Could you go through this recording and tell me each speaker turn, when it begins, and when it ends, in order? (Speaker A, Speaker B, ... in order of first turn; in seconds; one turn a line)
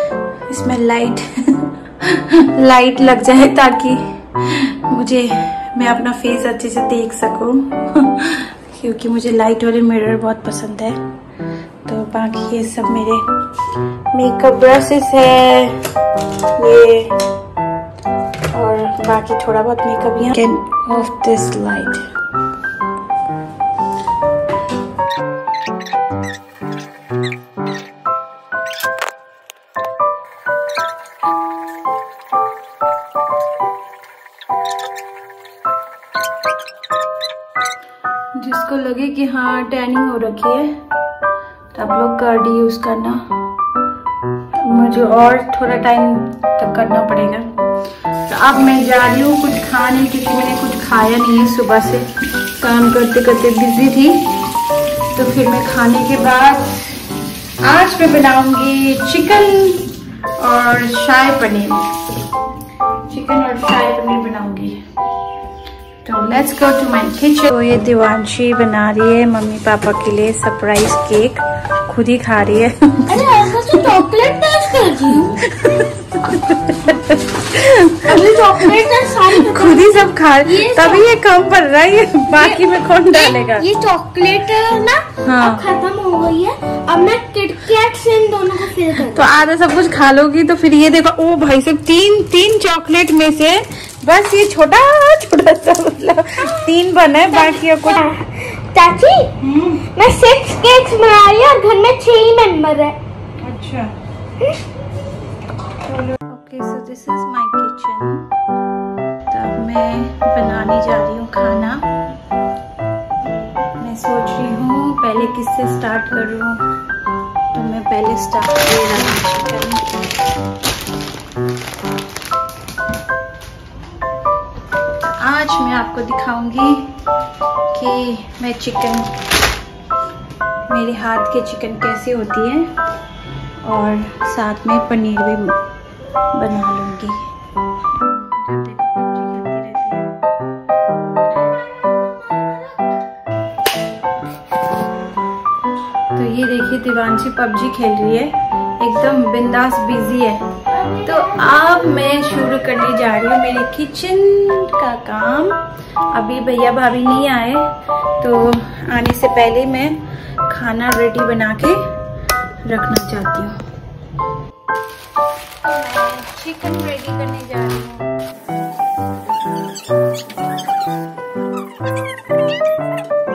Speaker A: 0.5-11.0
Speaker A: 11.9-13.2
Speaker A: 14.1-15.8
Speaker A: 16.6-17.1
Speaker A: 18.5-22.0
Speaker A: 38.4-40.7
Speaker A: 41.7-43.2
Speaker A: 44.6-47.5
Speaker A: 48.3-52.1
Speaker A: 52.6-54.3
Speaker A: 55.1-56.9
Speaker A: 57.6-61.9
Speaker A: 63.1-64.8
Speaker A: 66.0-73.2
Speaker B: 73.1-75.4
Speaker A: 75.2-83.7
Speaker B: 78.0-81.0
Speaker B: 82.3-89.2
Speaker A: 85.2-85.6
Speaker A: 89.0-98.0
Speaker B: 97.3-99.3
Speaker A: 99.4-99.8
Speaker B: 99.9-103.0
Speaker A: 103.4-103.9
Speaker A: 105.8-108.3
Speaker A: 109.3-111.8
Speaker A: 113.8-116.6
Speaker A: 117.5-119.8
Speaker A: 125.0-126.9
Speaker A: 127.7-129.1
Speaker A: 130.7-132.7
Speaker A: 133.6-135.6
Speaker A: 136.3-137.3
Speaker A: 138.0-140.1
Speaker B: 141.4-142.8
Speaker A: 146.1-150.4
Speaker B: 150.7-152.0
Speaker A: 151.1-155.6
Speaker A: 156.1-157.7
Speaker A: 158.2-161.8
Speaker A: 162.6-163.6
Speaker A: 165.7-168.1